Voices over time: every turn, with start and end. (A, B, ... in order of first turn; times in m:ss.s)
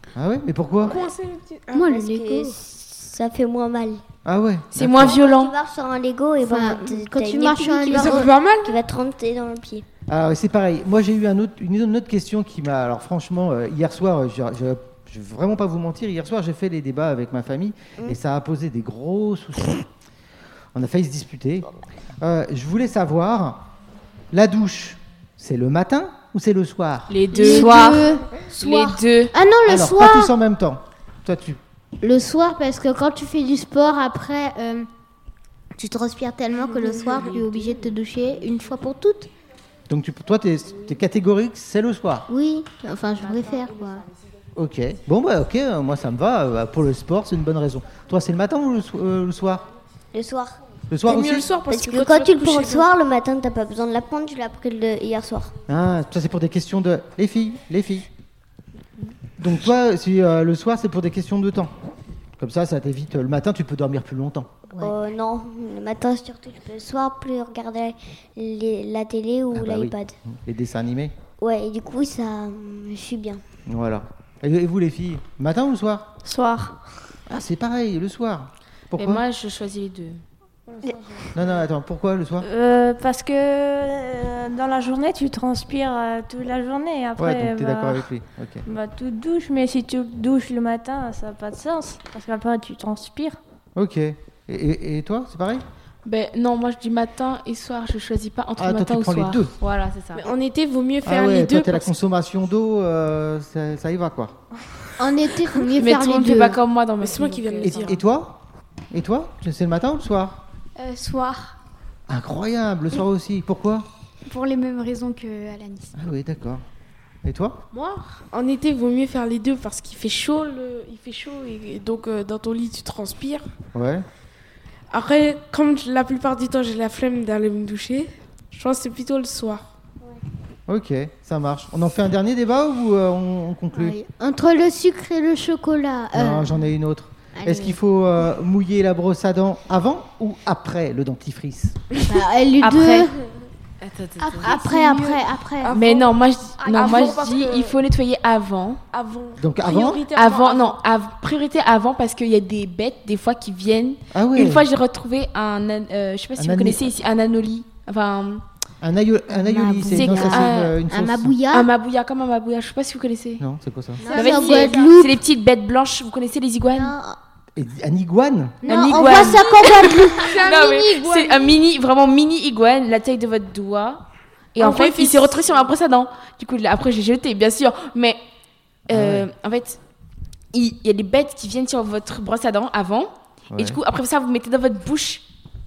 0:00.1-0:01.0 A
0:00.8-0:01.9 B
0:01.8-0:02.5 C
0:01.8-0:04.0 D
0:04.2-0:05.2 A
0:04.7-0:05.5 E
0:05.0-0:09.8 D
0:06.4-0:08.3 F
0:07.9-0:08.8 B
0:10.1-0:19.9 A
0:20.7-0:23.6 A
0:24.3-0:27.2 A
0:27.1-0:29.3 E
0:27.3-0:30.3 F
0:27.5-0:28.0 G
0:29.6-0:31.6 A
0:32.0-0:34.9 F
0:35.8-0:39.3 F
0:39.9-0:42.3 A
0:42.3-0:44.1 F
0:44.6-0:49.6 A
0:50.1-0:50.6 D
0:50.9-0:51.5 A
0:51.0-0:52.9 B
0:51.7-0:55.5 D
0:55.7-0:58.1 A
0:59.4-1:01.7 A
1:02.4-1:04.5 A
1:04.8-1:10.1 D
1:09.5-1:11.1 A
1:11.4-1:13.4 D
1:13.7-1:16.1 A
1:16.2-1:16.8 G
1:17.3-1:19.2 A
1:19.0-1:20.2 E
1:21.3-1:22.5 A
1:22.4-1:28.1 G
1:27.2-1:28.6 A
1:28.6-1:33.4 G
1:33.7-1:35.6 A
1:36.0-1:40.3 E
1:38.6-1:39.5 A
1:40.1-1:41.9 B
1:41.0-1:44.4 A
1:45.0-1:46.6 F
1:45.8-1:48.0 E
1:47.0-1:48.0 B
1:47.6-1:48.4 A
1:48.9-1:50.4 A
1:50.8-1:51.6 C
1:52.1-1:53.9 A
1:54.2-1:55.9 C
1:55.9-1:56.6 A
1:57.2-1:57.6 A
1:57.8-2:03.4 B
2:03.7-2:04.0 A
2:04.9-2:09.6 B
2:10.7-2:14.0 A
2:13.7-2:16.6 F
2:16.1-2:21.8 A
2:17.3-2:17.8 F
2:22.0-2:23.2 F
2:22.6-2:23.1 G
2:23.8-2:24.6 E
2:24.3-2:25.1 C
2:24.4-2:25.7 F
2:24.6-2:25.0 B
2:25.6-2:27.8 B
2:25.7-2:28.8 E
2:28.9-2:30.8 B
2:29.4-2:30.1 A
2:30.1-2:38.4 E
2:34.1-2:34.7 A
2:36.4-2:36.8 A
2:38.8-2:41.4 A
2:39.3-2:41.7 F
2:39.8-2:40.7 E
2:41.5-2:43.4 E
2:43.4-2:44.0 A
2:44.0-2:45.2 F
2:44.0-2:44.9 B
2:44.1-2:46.9 E
2:46.7-2:47.2 F
2:47.6-2:48.6 A
2:48.6-2:50.5 F
2:48.6-2:58.2 E
2:50.2-2:51.6 B
2:54.6-2:55.7 B
2:58.9-2:59.8 E
2:58.9-2:59.3 A
3:00.5-3:05.2 E
3:03.5-3:03.8 A